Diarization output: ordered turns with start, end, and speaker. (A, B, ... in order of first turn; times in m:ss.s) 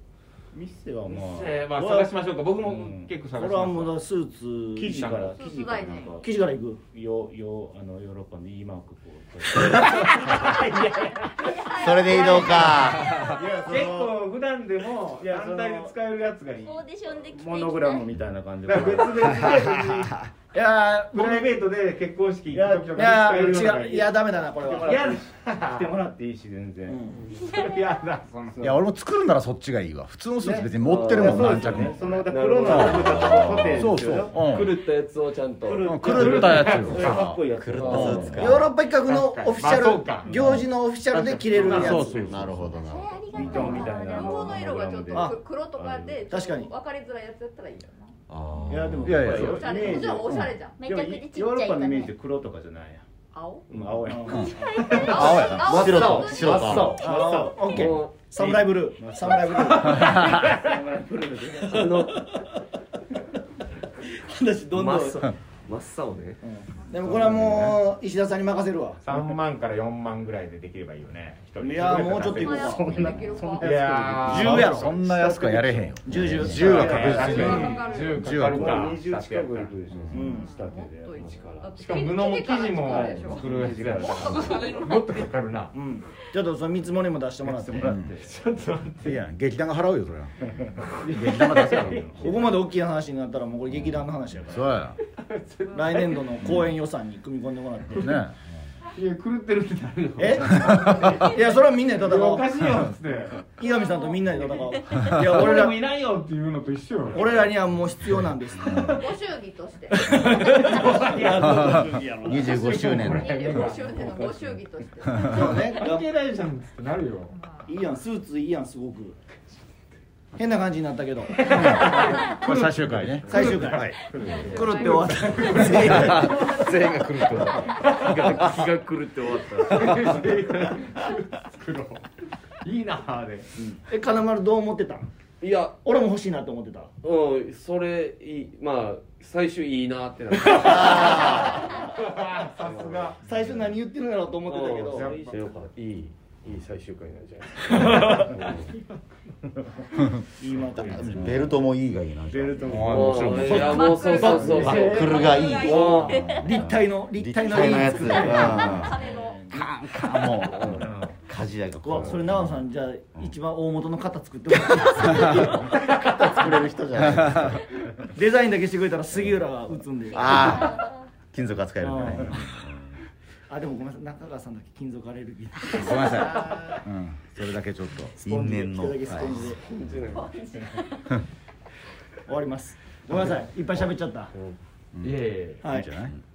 0:00.5-0:01.7 A
0:01.0-0:04.0 B
0:01.7-0:02.1 C
0:02.7-0:03.2 A
0:03.3-0:05.0 C
0:04.7-0:06.4 A
0:04.8-0:05.3 B
0:05.3-0:06.2 D
0:06.2-0:06.8 C
0:06.9-0:11.0 A
0:09.5-0:12.6 B
0:11.4-0:13.3 D
0:11.6-0:13.3 E
0:12.4-0:14.2 A
0:13.4-0:17.0 B
0:15.2-0:15.9 A
0:16.6-0:18.1 F
0:17.3-0:19.8 A
0:18.6-0:20.1 B
0:20.5-0:21.5 C
0:21.1-0:26.0 B
0:22.5-0:23.8 A
0:22.7-0:25.1 C
0:24.4-0:27.2 A
0:26.9-0:27.2 C
0:27.4-0:28.7 B
0:28.5-0:28.8 A
0:28.6-0:32.0 G
0:30.4-0:34.6 A
0:30.8-0:37.0 H
0:32.5-0:33.1 G
0:32.9-0:33.9 E
0:33.7-0:34.8 G
0:35.6-0:38.6 A
0:35.8-0:37.2 G
0:36.0-0:37.4 B
0:36.3-0:38.6 E
0:37.7-0:38.4 H
0:38.4-0:42.2 C
0:38.9-0:40.5 B
0:40.2-0:42.7 A
0:41.1-0:42.2 B
0:41.6-0:42.7 H
0:42.3-0:43.7 E
0:42.8-0:44.7 F
0:43.3-0:46.3 A
0:43.5-0:48.1 D
0:45.1-0:45.4 C
0:46.3-0:46.7 C
0:48.3-0:49.4 E
0:48.6-0:53.0 A
0:49.0-0:49.7 G
0:49.2-0:50.8 D
0:50.8-0:52.1 F
0:53.3-0:57.0 D
0:53.7-1:02.1 A
0:54.0-0:54.5 C
0:54.9-0:57.0 E
0:55.1-0:55.6 G
0:56.7-1:02.2 C
0:57.7-0:58.2 H
0:59.3-1:00.6 B
1:01.6-1:02.2 H
1:04.2-1:05.3 C
1:04.7-1:06.4 H
1:06.4-1:09.0 C
1:07.0-1:07.6 A
1:09.0-1:15.0 B
1:11.6-1:13.2 C
1:11.6-1:22.1 A
1:12.4-1:14.1 D
1:14.2-1:14.9 C
1:14.4-1:18.7 G
1:16.0-1:17.8 C
1:16.5-1:19.8 B
1:17.1-1:18.4 D
1:20.1-1:20.5 C
1:20.2-1:25.3 D
1:21.8-1:25.7 B
1:22.8-1:24.8 A
1:25.7-1:27.9 C
1:27.4-1:28.3 A
1:27.8-1:28.2 G
1:28.2-1:29.2 B
1:29.0-1:30.4 G
1:30.4-1:32.3 A
1:31.0-1:32.5 B
1:31.0-1:32.1 G
1:31.1-1:34.8 C
1:34.5-1:35.0 G
1:35.2-1:36.2 B
1:35.7-1:38.2 C
1:37.9-1:38.4 G
1:38.9-1:43.5 B
1:40.2-1:42.7 C
1:40.5-1:41.0 G
1:40.8-1:41.4 D
1:43.6-1:45.8 C
1:43.6-1:44.8 D
1:45.0-1:47.5 B
1:47.1-1:49.0 C
1:48.7-1:51.1 D
1:50.0-1:52.5 C
1:50.1-1:51.7 B
1:52.2-1:53.6 E
1:52.4-1:54.0 B
1:52.4-1:55.5 D
1:53.6-1:54.6 A
1:55.2-1:55.5 G
1:55.2-1:56.1 C
1:55.4-1:57.3 B
1:57.3-1:57.7 D
1:57.6-1:59.2 C
2:00.4-2:02.1 C
2:01.3-2:08.7 B
2:01.6-2:03.8 G
2:03.2-2:06.3 C
2:04.0-2:05.0 A
2:04.1-2:08.0 D
2:05.9-2:10.4 H
2:09.5-2:12.0 B
2:12.6-2:13.6 B
2:13.7-2:15.1 C
2:15.4-2:15.8 H
2:15.8-2:16.9 C
2:17.0-2:21.6 H
2:20.5-2:23.7 B
2:20.5-2:21.6 E
2:22.6-2:23.1 H
2:23.2-2:25.2 C
2:24.5-2:28.7 H
2:24.9-2:25.6 B
2:27.7-2:28.4 B
2:30.4-2:31.4 C
2:30.4-2:31.5 A
2:30.8-2:33.0 E
2:32.2-2:35.5 A
2:32.7-2:34.0 G
2:32.7-2:34.6 B
2:32.8-2:36.4 H
2:33.6-2:36.6 F
2:33.9-2:36.0 D
2:34.1-2:39.7 C
2:34.2-2:43.3 E
2:37.5-2:39.4 D
2:40.4-2:40.8 H
2:40.7-2:41.2 A
2:41.8-2:45.7 C
2:45.2-2:47.6 E
2:45.6-2:46.6 B
2:47.0-2:47.6 G
2:48.1-2:50.6 C
2:50.1-2:52.9 E
2:50.2-2:51.0 F
2:51.8-2:52.4 C
2:53.5-2:56.7 C
2:55.7-2:56.4 E
2:55.8-2:56.2 G
2:56.2-2:56.5 A
2:56.8-2:58.2 G
2:58.2-2:59.6 C
2:58.2-2:59.6 E
2:59.6-3:00.6 H
3:00.1-3:01.2 D
3:02.3-3:04.3 C
3:04.9-3:06.1 G
3:05.0-3:05.7 B
3:05.6-3:05.9 C
3:05.9-3:06.2 E